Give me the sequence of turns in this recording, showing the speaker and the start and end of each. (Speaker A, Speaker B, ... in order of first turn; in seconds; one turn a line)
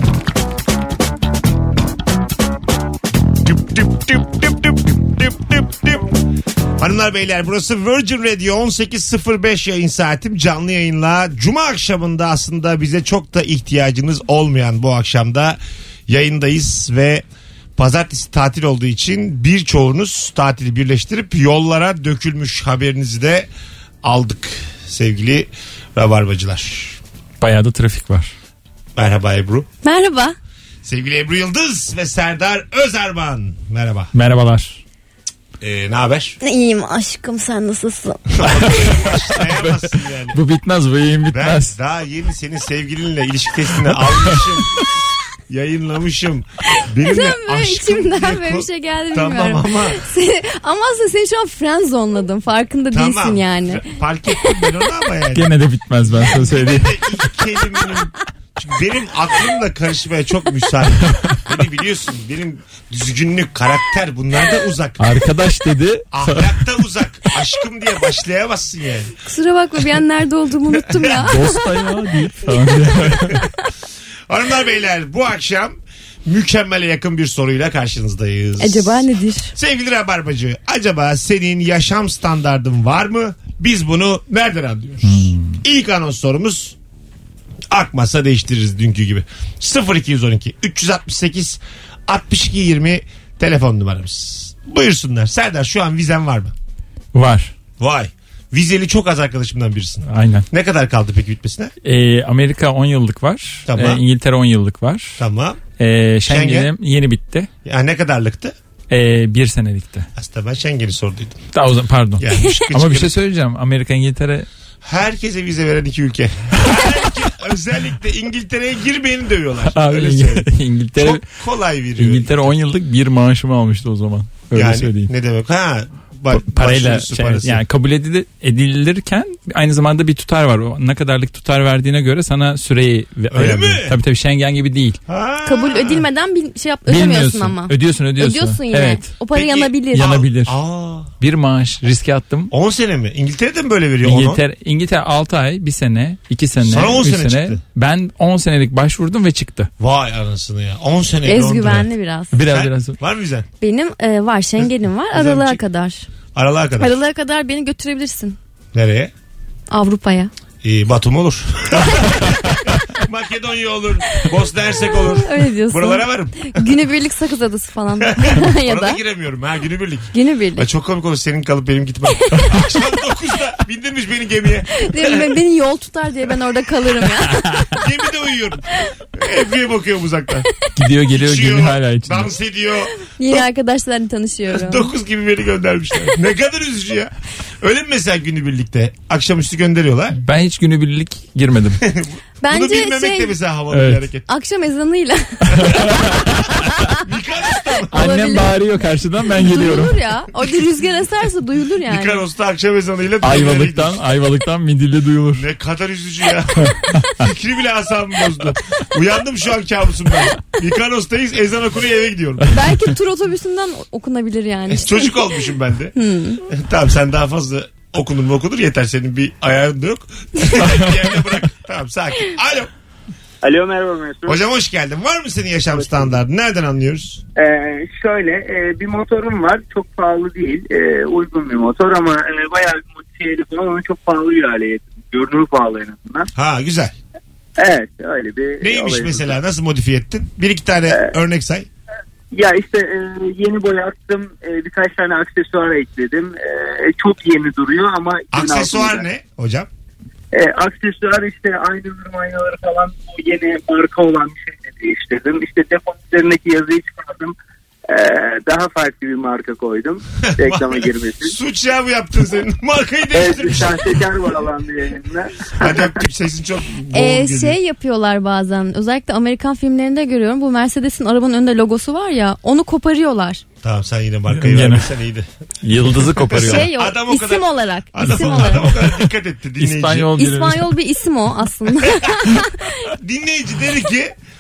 Speaker A: 3.5-6.0
Speaker A: 6.8-17.2
Speaker A: 17.8-23.5
Speaker A: 24.0-27.0
Speaker B: 27.4-28.3
Speaker A: 29.0-29.7
Speaker C: 29.8-30.4
Speaker A: 30.8-34.1
Speaker B: 34.1-34.8
Speaker A: 35.6-36.4
Speaker C: 36.4-38.7
Speaker A: 38.4-40.4
Speaker B: 38.6-39.6
Speaker B: 40.3-41.7
Speaker A: 41.3-44.7
Speaker B: 43.9-44.4
Speaker A: 45.5-50.0
Speaker C: 47.0-53.9
Speaker A: 52.9-55.5
Speaker B: 55.3-56.9
Speaker A: 56.1-65.0
Speaker B: 65.0-66.6
Speaker A: 66.1-69.1
Speaker C: 69.2-71.6
Speaker A: 70.7-71.3
Speaker B: 71.2-73.4
Speaker A: 72.9-73.3
Speaker A: 74.3-86.8
Speaker C: 78.6-79.5
Speaker B: 85.0-85.6
Speaker A: 87.7-96.5
Speaker B: 97.1-97.5
Speaker A: 97.8-101.7
Speaker B: 100.1-100.5
Speaker B: 101.8-105.2
Speaker A: 103.7-104.0
Speaker A: 105.2-105.6
Speaker B: 105.8-107.5
Speaker A: 106.2-106.7
Speaker A: 107.6-108.5
Speaker B: 108.9-110.1
Speaker A: 110.2-111.4
Speaker B: 111.5-114.5
Speaker A: 112.2-113.1
Speaker A: 114.8-122.5
Speaker B: 119.7-121.2
Speaker B: 122.0-125.1
Speaker A: 124.5-127.6
Speaker B: 126.3-135.0
Speaker A: 133.3-134.0
Speaker A: 135.1-136.1
Speaker C: 135.4-140.1
Speaker B: 136.9-139.1
Speaker A: 139.3-141.1
Speaker B: 139.9-140.6
Speaker B: 141.2-142.5
Speaker A: 142.5-144.4
Speaker B: 144.0-149.7
Speaker A: 146.6-147.6
Speaker A: 149.8-151.9
Speaker C: 151.2-152.3
Speaker B: 152.3-153.0
Speaker A: 152.5-153.5
Speaker C: 153.6-156.1
Speaker A: 155.1-155.6
Speaker A: 156.3-156.9
Speaker C: 156.8-158.4
Speaker A: 158.7-159.1
Speaker C: 159.7-160.3
Speaker A: 160.6-166.8
Speaker C: 164.9-169.0
Speaker A: 168.0-175.4
Speaker C: 170.1-170.7
Speaker C: 172.1-172.6
Speaker C: 174.8-177.7
Speaker A: 177.7-178.7
Speaker A: 179.2-180.5
Speaker B: 180.8-182.3
Speaker A: 181.1-183.4
Speaker C: 183.2-184.9
Speaker A: 184.5-190.2
Speaker B: 190.2-191.8
Speaker A: 191.8-194.2
Speaker C: 192.4-193.3
Speaker B: 193.7-194.0
Speaker C: 194.3-195.9
Speaker B: 195.6-196.2
Speaker C: 196.4-196.9
Speaker A: 196.9-198.1
Speaker B: 197.9-200.0
Speaker C: 197.9-198.5
Speaker C: 199.3-202.2
Speaker A: 201.8-204.0
Speaker B: 203.2-205.4
Speaker A: 205.3-212.6
Speaker C: 212.5-215.3
Speaker A: 214.7-215.9
Speaker C: 215.9-216.4
Speaker A: 216.4-222.7
Speaker D: 223.4-224.4
Speaker A: 224.2-227.2
Speaker D: 225.7-226.1
Speaker D: 227.3-236.3
Speaker A: 236.3-236.9
Speaker D: 237.6-239.3
Speaker A: 238.6-241.7
Speaker D: 240.9-241.2
Speaker D: 242.3-249.1
Speaker A: 248.3-249.7
Speaker D: 250.3-257.4
Speaker D: 257.9-261.3
Speaker A: 260.4-264.1
Speaker D: 263.1-265.9
Speaker A: 265.6-267.6
Speaker C: 266.9-273.4
Speaker A: 273.6-275.3
Speaker B: 274.3-274.9
Speaker B: 275.6-276.7
Speaker A: 276.1-280.1
Speaker C: 276.4-278.7
Speaker B: 279.6-280.7
Speaker C: 280.2-282.7
Speaker A: 282.9-284.1